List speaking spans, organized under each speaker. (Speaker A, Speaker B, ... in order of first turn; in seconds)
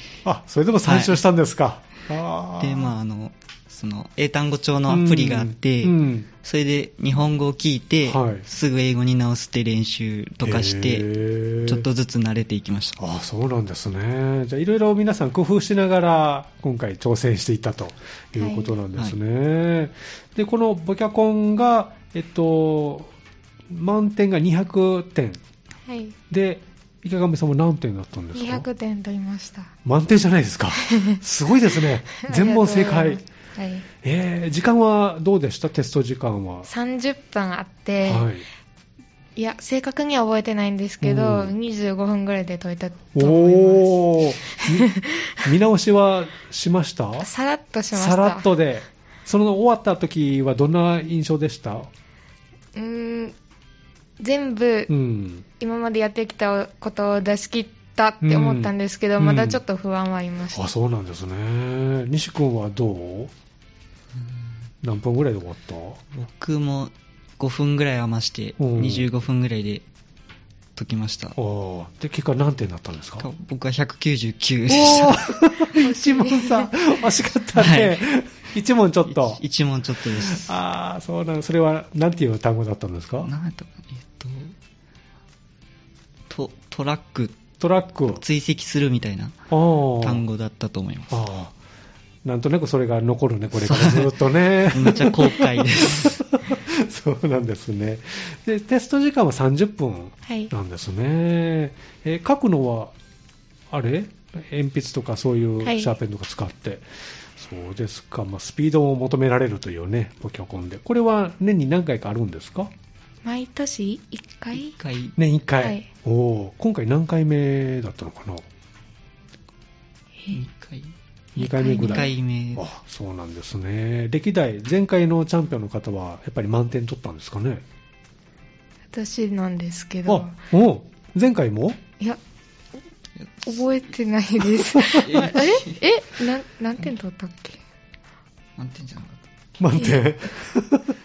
Speaker A: 0.2-2.9, 4.9-6.3, 8.1-8.4, 10.4-11.9, 13.0-23.1, 23.7-25.4, 26.3-28.7, 29.8-33.2, 34.0-36.7, 38.0-38.5, 41.0-41.5, 43.1-44.9, 45.4-47.3, 47.9-51.9, 54.9-55.5, 58.2-59.6, 60.5-63.3, 64.8-66.0, 68.6-69.1, 71.4-73.3, 74.7-79.4, 80.0-83.3, 87.6-88.2, 89.5-90.2, 91.1-91.5, 92.2-102.9, 103.7-112.7, 115.2-118.5, 121.4-127.6, 130.1-131.8, 134.7-135.3, 139.6-141.0
Speaker B: 0.8-1.2, 2.6-11.1, 11.6-13.0, 66.1-69.8, 70.8-71.4, 73.2-75.2, 77.6-78.0, 79.1-80.5, 83.2-84.5, 86.3-87.4, 88.1-89.4, 90.0-91.2, 93.6-96.2, 114.6-115.2, 120.3-122.7, 133.2-133.6, 134.8-135.8, 138.6-139.2
Speaker C: 18.4-18.8, 25.9-26.2, 28.3-29.7, 30.9-31.2, 32.2-33.9, 36.7-38.3, 39.4-45.5, 47.2-48.5, 52.8-53.4, 54.2-54.9, 55.6-60.7, 75.7-76.7, 100.3-100.5, 105.6-105.9, 113.2-114.8, 115.6-115.9, 121.4-122.1, 128.9-130.3, 133.4-137.6